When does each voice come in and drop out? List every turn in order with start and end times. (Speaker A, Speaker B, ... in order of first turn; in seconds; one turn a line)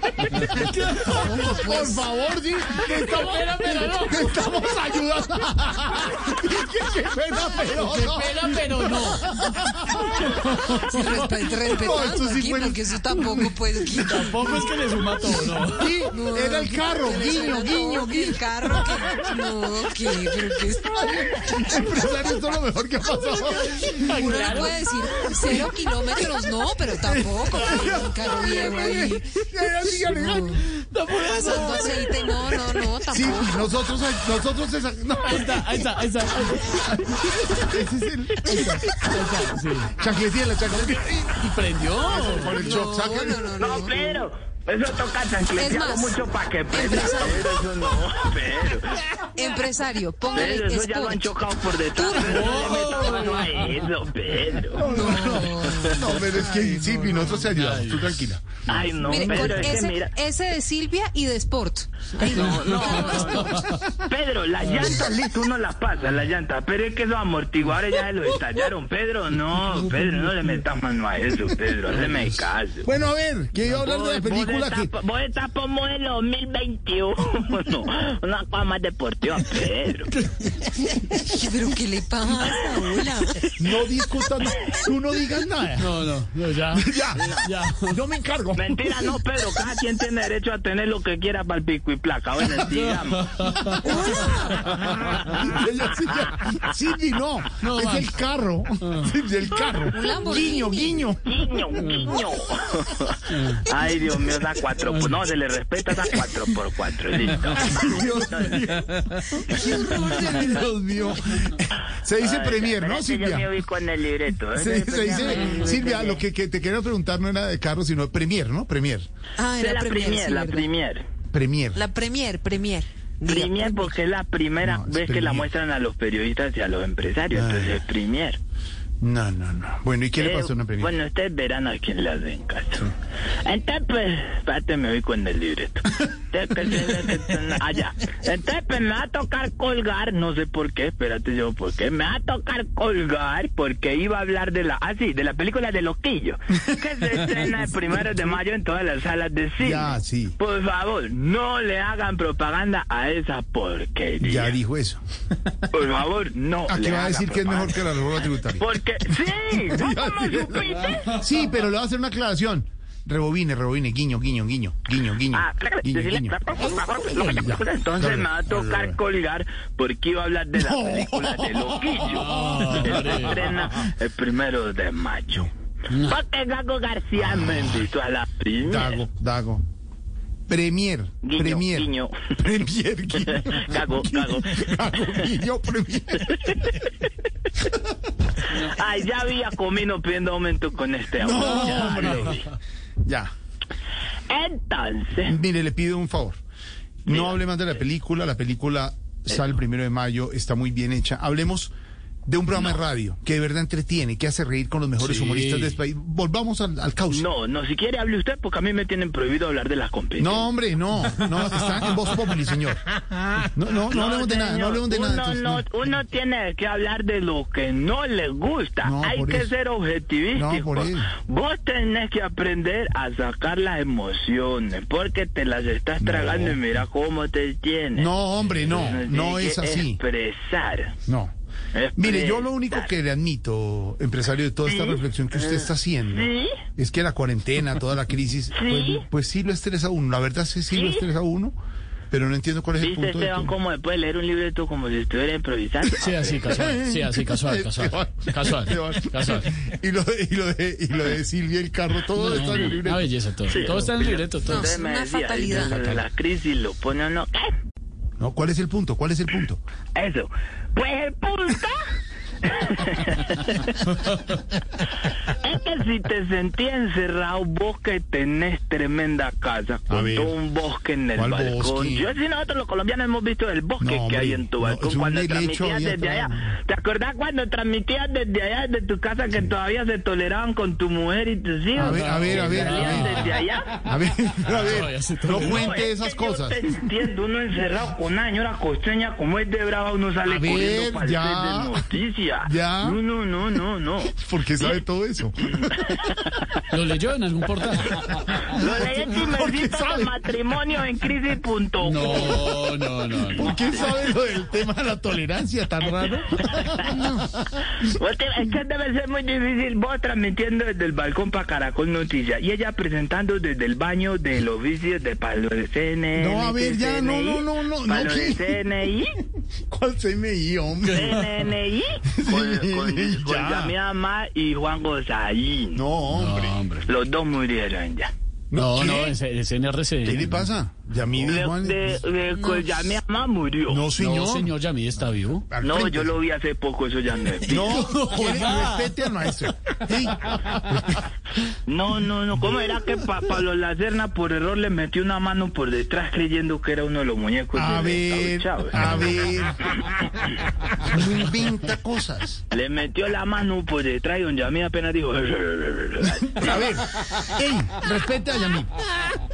Speaker A: 0.1-14.6
Speaker B: 0.6-1.0
Speaker C: 1.0-2.1
Speaker B: 2.8-4.6
Speaker B: 7.7-9.2
Speaker B: 10.0-11.0
Speaker C: 10.7-14.4
Speaker B: 14.0-16.0
Speaker A: 15.6-19.4
Speaker C: 16.1-21.8
Speaker A: 20.1-30.6
Speaker B: 23.6-24.8
Speaker C: 23.7-30.6
Speaker B: 30.7-32.2
Speaker C: 31.1-33.7
Speaker A: 33.1-35.8
Speaker B: 35.2-37.0
Speaker A: 36.5-39.0
Speaker B: 38.4-39.9
Speaker A: 40.0-41.4
Speaker B: 40.9-42.8
Speaker A: 42.0-43.5
Speaker C: 42.5-44.3
Speaker D: 43.6-48.9
Speaker C: 45.5-47.6
Speaker C: 49.4-51.3
Speaker D: 50.3-54.8
Speaker C: 51.8-53.2
Speaker B: 52.3-53.7
Speaker A: 54.7-59.7
Speaker C: 54.8-56.6
Speaker B: 56.7-58.1
Speaker D: 58.7-60.1
Speaker C: 59.0-63.6
Speaker D: 62.2-63.5
Speaker B: 62.3-63.6
Speaker D: 64.0-72.9
Speaker B: 71.9-72.3
Speaker A: 72.8-74.9
Speaker D: 73.8-80.1
Speaker B: 80.1-80.6
Speaker C: 81.2-83.5
Speaker A: 83.5-86.0
Speaker B: 85.8-88.0
Speaker A: 86.7-89.2
Speaker D: 87.2-87.5
Speaker D: 88.5-93.5
Speaker B: 93.3-93.9
Speaker C: 93.8-94.7
Speaker A: 94.1-101.3
Speaker D: 95.2-95.6
Speaker D: 96.3-96.6
Speaker B: 97.6-98.1
Speaker C: 99.9-101.0
Speaker D: 101.2-108.6
Speaker B: 101.8-102.1
Speaker B: 103.3-103.6
Speaker B: 104.9-105.1
Speaker A: 107.5-113.5
Speaker C: 109.4-110.7
Speaker D: 112.2-116.2
Speaker A: 114.5-119.0
Speaker C: 115.1-115.8
Speaker C: 119.4-120.7
Speaker D: 119.5-121.0
Speaker A: 121.3-121.8
Speaker C: 121.7-123.9
Speaker D: 123.2-128.4
Speaker A: 124.6-125.5
Speaker A: 127.3-127.8
Speaker A: 129.0-130.9
Speaker D: 130.2-132.9
Speaker D: 133.4-154.6
Speaker A: 149.6-150.3
Speaker A: 154.2-155.0
Speaker D: 155.7-157.8
Speaker A: 156.7-158.7
Speaker D: 158.6-161.2
Speaker A: 159.4-166.4
Speaker D: 165.3-179.0
Speaker A: 167.2-169.0
Speaker A: 170.5-173.2
Speaker B: 172.1-173.6
Speaker A: 177.2-177.7
Speaker A: 178.6-179.6
Speaker A: 180.5-186.7
Speaker D: 181.2-182.3
Speaker D: 183.2-185.2
Speaker D: 188.5-192.5
Speaker A: 191.2-192.4
Speaker A: 193.0-193.3
Speaker D: 194.3-195.3
Speaker A: 195.2-196.4
Speaker A: 197.0-201.7
Speaker D: 197.1-197.5
Speaker D: 199.3-199.5
Speaker A: 202.2-207.3
Speaker B: 205.0-205.8
Speaker D: 207.1-210.5
Speaker A: 210.2-212.8
Speaker A: 213.4-215.7
Speaker D: 213.8-230.9
Speaker A: 218.8-219.5
Speaker A: 220.3-221.1
Speaker A: 226.0-226.6
Speaker A: 227.9-230.0
Speaker B: 228.4-228.9
Speaker A: 231.1-231.3
Speaker D: 231.7-232.9
Speaker A: 232.0-241.5
Speaker D: 234.6-236.6
Speaker D: 238.5-239.1
Speaker D: 240.7-241.1
Speaker A: 242.1-243.5
Speaker D: 242.8-246.7
Speaker B: 246.0-249.5
Speaker A: 246.5-253.8
Speaker B: 252.1-254.6
Speaker D: 253.4-257.5
Speaker C: 254.5-255.7
Speaker B: 255.5-256.0
Speaker A: 258.2-259.6
Speaker D: 259.9-261.8
Speaker D: 262.4-263.8
Speaker D: 265.3-283.7
Speaker A: 269.9-270.4
Speaker A: 271.1-272.1
Speaker A: 273.8-276.5
Speaker A: 281.8-286.8
Speaker B: 281.8-283.4
Speaker B: 284.4-285.7
Speaker D: 285.3-294.8
Speaker A: 290.2-291.9
Speaker A: 292.4-293.0
Speaker A: 294.1-295.9
Speaker D: 295.8-296.4
Speaker B: 296.7-298.4
Speaker D: 298.4-302.5
Speaker A: 298.5-300.1
Speaker B: 301.8-303.6
Speaker A: 302.0-302.3
Speaker A: 303.3-307.1
Speaker D: 305.8-307.0
Speaker C: 306.9-307.2
Speaker D: 307.9-319.2
Speaker A: 316.1-318.6
Speaker A: 319.7-321.2
Speaker B: 320.8-321.3
Speaker D: 320.9-325.8
Speaker A: 322.1-323.7
Speaker A: 325.7-326.6
Speaker B: 326.1-326.9
Speaker D: 326.9-328.1
Speaker A: 328.5-329.1
Speaker B: 328.5-330.4
Speaker A: 330.0-332.0
Speaker D: 331.2-333.8
Speaker A: 333.6-334.5
Speaker B: 334.0-335.4
Speaker A: 335.5-336.1
Speaker D: 335.6-337.8
Speaker A: 337.5-341.0
Speaker B: 337.6-338.9
Speaker D: 341.7-349.2
Speaker A: 347.5-350.1
Speaker A: 350.7-352.4
Speaker D: 352.5-356.7
Speaker A: 356.0-358.9